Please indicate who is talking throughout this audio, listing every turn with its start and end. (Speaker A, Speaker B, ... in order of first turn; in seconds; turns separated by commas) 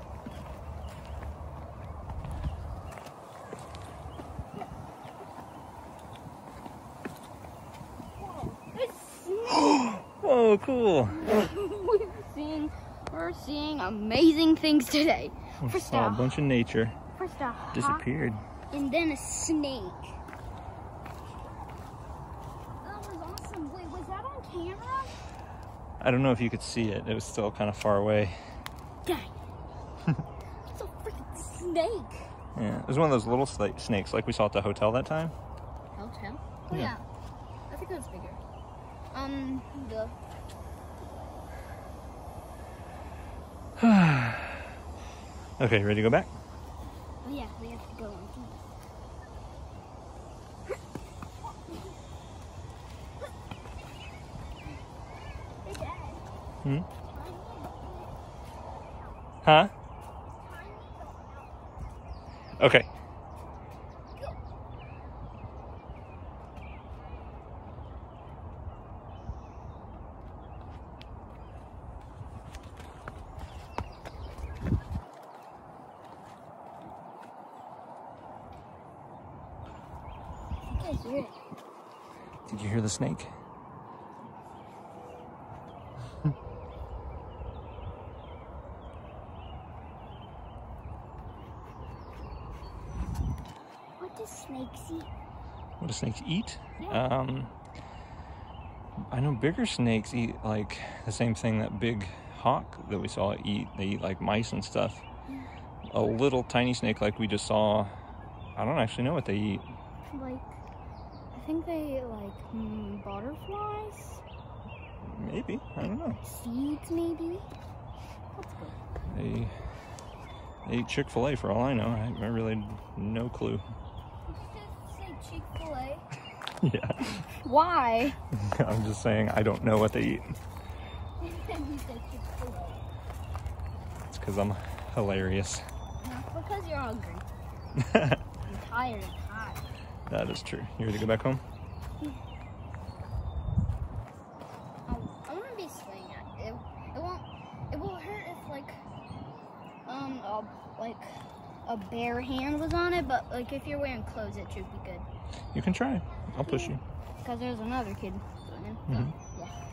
Speaker A: 8.2-9.8, Speaker B: 9.8-11.3, Speaker A: 11.2-16.4, Speaker B: 15.6-17.0, Speaker A: 17.1-18.1, Speaker B: 17.7-18.4, Speaker A: 18.7-20.2, Speaker A: 22.8-25.1, Speaker B: 26.0-28.4, Speaker A: 29.1-29.3, Speaker A: 30.7-32.3, Speaker B: 32.5-35.3, Speaker A: 35.9-37.0, Speaker A: 37.7-38.4, Speaker A: 39.1-40.1, Speaker B: 43.8-44.6, Speaker B: 45.6-46.3, Speaker A: 47.2-48.6, Speaker A: 55.6-56.2, Speaker A: 57.0-58.1, Speaker B: 59.4-59.7, Speaker A: 60.4-61.6, Speaker B: 62.6-62.9, Speaker A: 80.7-81.3, Speaker B: 82.5-83.3, Speaker A: 94.0-95.1, Speaker B: 95.8-97.5, Speaker A: 96.8-97.0, Speaker B: 99.1-105.0, Speaker B: 105.9-107.9, Speaker B: 108.5-109.7, Speaker A: 110.0-110.6, Speaker A: 111.3-114.2, Speaker B: 115.0-116.2, Speaker A: 116.2-117.5, Speaker A: 118.3-118.8, Speaker B: 119.1-119.5, Speaker B: 120.7-123.6, Speaker A: 124.3-126.0, Speaker B: 126.6-127.2, Speaker A: 127.4-128.2, Speaker B: 128.4-130.3, Speaker A: 131.2-132.8, Speaker B: 134.1-135.6, Speaker A: 136.0-137.2, Speaker B: 137.8-138.2, Speaker A: 138.4-139.6, Speaker B: 140.1-141.4, Speaker A: 144.9-148.8, Speaker A: 149.8-151.1, Speaker A: 151.7-155.1, Speaker B: 155.5-156.8, Speaker A: 156.3-159.6, Speaker B: 158.9-159.1